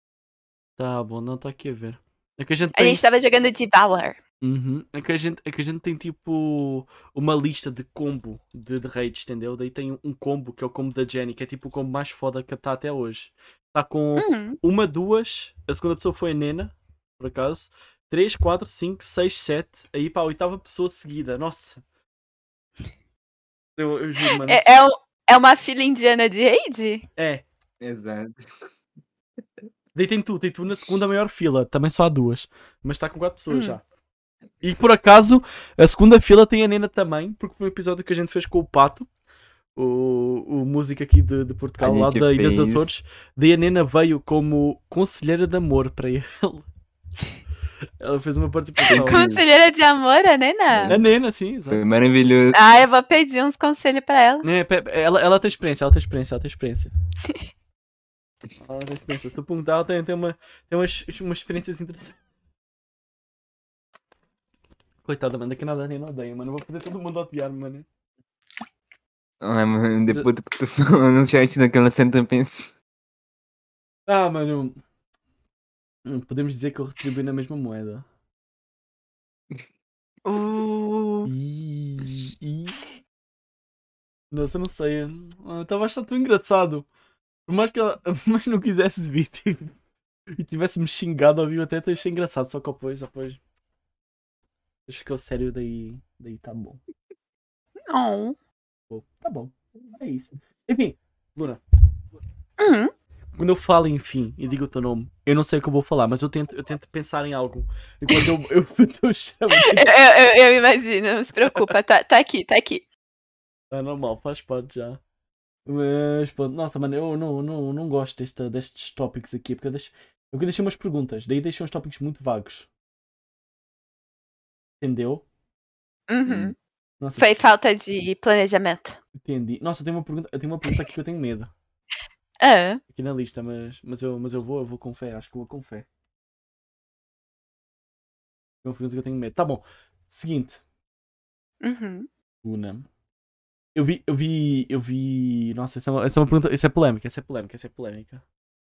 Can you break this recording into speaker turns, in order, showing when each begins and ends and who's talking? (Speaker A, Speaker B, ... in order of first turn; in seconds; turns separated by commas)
Speaker A: 0.8-3.0, Speaker B: 2.8-4.2, Speaker A: 4.4-21.8, Speaker B: 14.2-14.6, Speaker A: 23.8-24.7, Speaker B: 24.4-27.1, Speaker A: 27.2-27.4, Speaker C: 27.8-28.4, Speaker A: 29.9-33.8, Speaker B: 33.5-33.8, Speaker A: 34.6-39.1, Speaker A: 39.7-46.7, Speaker C: 41.8-42.9, Speaker A: 48.0-49.2, Speaker C: 48.9-49.4, Speaker B: 49.0-51.0, Speaker C: 50.7-51.0, Speaker A: 50.9-51.8, Speaker C: 51.7-52.6, Speaker B: 52.5-54.5, Speaker A: 54.4-56.9, Speaker A: 58.6-62.2, Speaker A: 65.0-67.9, Speaker C: 69.4-72.7, Speaker A: 74.1-74.8, Speaker A: 76.1-78.0, Speaker B: 80.2-81.3, Speaker A: 81.2-82.8, Speaker A: 84.3-86.9, Speaker A: 87.5-89.7, Speaker A: 90.3-93.4, Speaker A: 94.9-96.8, Speaker B: 97.9-98.4, Speaker A: 98.9-101.6, Speaker B: 102.6-102.9, Speaker A: 103.4-109.9, Speaker B: 109.6-112.8, Speaker A: 113.7-115.0, Speaker A: 115.7-122.7, Speaker A: 124.8-125.2, Speaker B: 126.1-126.5, Speaker C: 126.2-126.5, Speaker A: 127.0-127.2, Speaker B: 127.2-129.0, Speaker A: 129.2-131.5, Speaker B: 132.4-132.8, Speaker A: 132.9-135.9, Speaker A: 138.6-140.6, Speaker B: 141.6-142.1, Speaker A: 142.4-142.9, Speaker A: 143.7-148.2